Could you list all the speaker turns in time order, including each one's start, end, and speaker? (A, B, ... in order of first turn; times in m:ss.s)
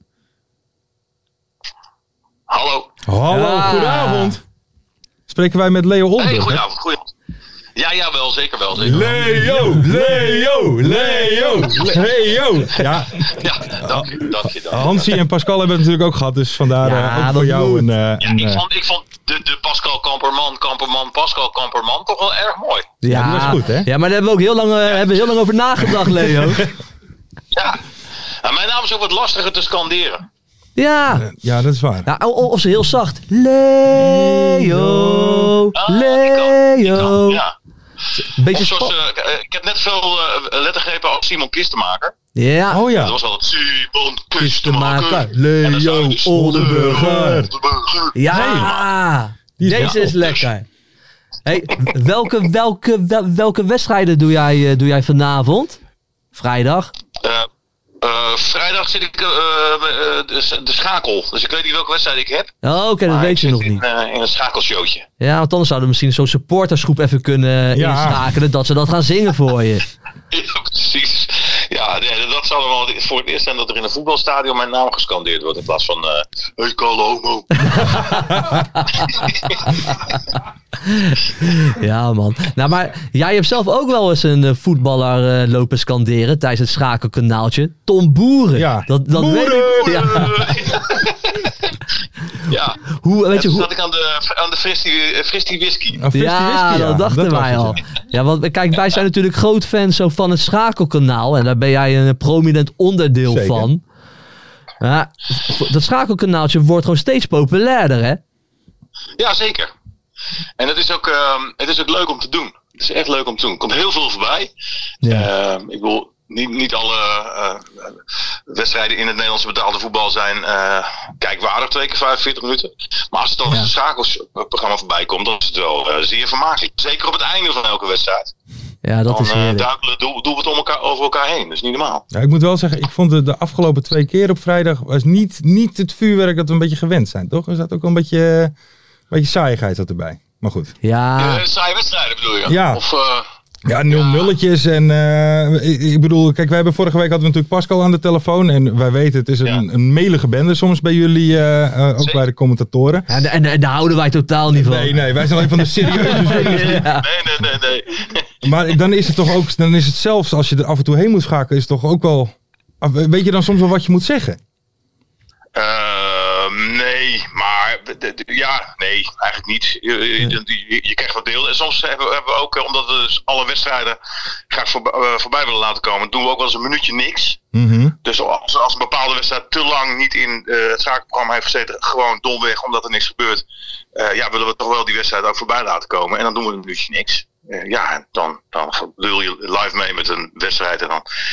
0:02.5-0:02.9 A
0:03.1-0:04.4 B
0:03.3-0:04.4 C
0:05.3-0:06.6 B
0:06.2-0:07.1 A
0:07.8-0:09.1 A
0:08.8-0:18.6 B
0:08.9-0:12.0 C
0:13.3-0:15.1 A
0:16.8-0:17.9 C
0:18.2-0:22.9 A
0:23.0-0:26.7 C
0:23.1-0:23.9 B
0:24.9-0:25.3 A
0:27.5-0:27.8 A
0:28.4-0:30.2 A
0:30.8-0:31.3 C
0:31.1-0:32.1 B
0:32.1-0:37.4 C
0:34.0-0:35.6 B
0:35.8-0:37.5 A
0:38.4-0:38.9 C
0:38.5-0:42.1 A
0:42.4-0:42.9 C
0:42.7-0:43.2 B
0:43.0-0:48.8 A
0:44.4-0:47.5 C
0:46.3-0:47.5 B
0:48.1-0:50.6 C
0:48.3-0:48.8 B
0:49.6-0:50.3 B
0:49.8-0:50.2 A
0:51.4-0:55.8 C
0:56.3-0:56.9 C
0:57.2-0:57.5 A
0:58.0-1:02.5 A
1:02.6-1:03.8 C
1:03.1-1:05.0 A
1:05.2-1:09.9 C
1:07.7-1:08.2 B
1:10.3-1:18.4 A
1:17.7-1:18.8 C
1:19.0-1:20.0 A
1:20.8-1:30.5 C
1:28.6-1:30.3 B
1:29.8-1:31.5 A
1:32.5-1:36.0 A
1:32.9-1:33.7 C
1:36.0-1:37.8 B
1:36.1-1:43.8 C
1:43.3-1:43.7 B
1:44.8-1:48.2 C
1:49.2-1:49.7 A
1:50.6-1:54.5 A
1:55.0-1:55.3 C
1:55.0-1:58.0 A
1:58.5-2:08.3 A
2:08.8-2:09.7 C
2:09.1-2:12.0 A
2:12.1-2:18.5 B
2:19.1-2:20.7 B
2:20.8-2:21.4 C
2:21.2-2:23.3 A
2:22.5-2:22.8 B
2:23.6-2:33.1 B
2:23.9-2:24.3 A
2:33.1-2:35.0 C
2:34.6-2:36.9 B
2:35.6-2:37.1 C
2:36.2-2:38.2 A
2:38.4-2:44.4 B
2:45.6-2:54.0 A
2:54.5-2:57.4 A
2:57.5-2:58.0 B
2:58.0-3:03.4 A
3:04.0-3:11.0 A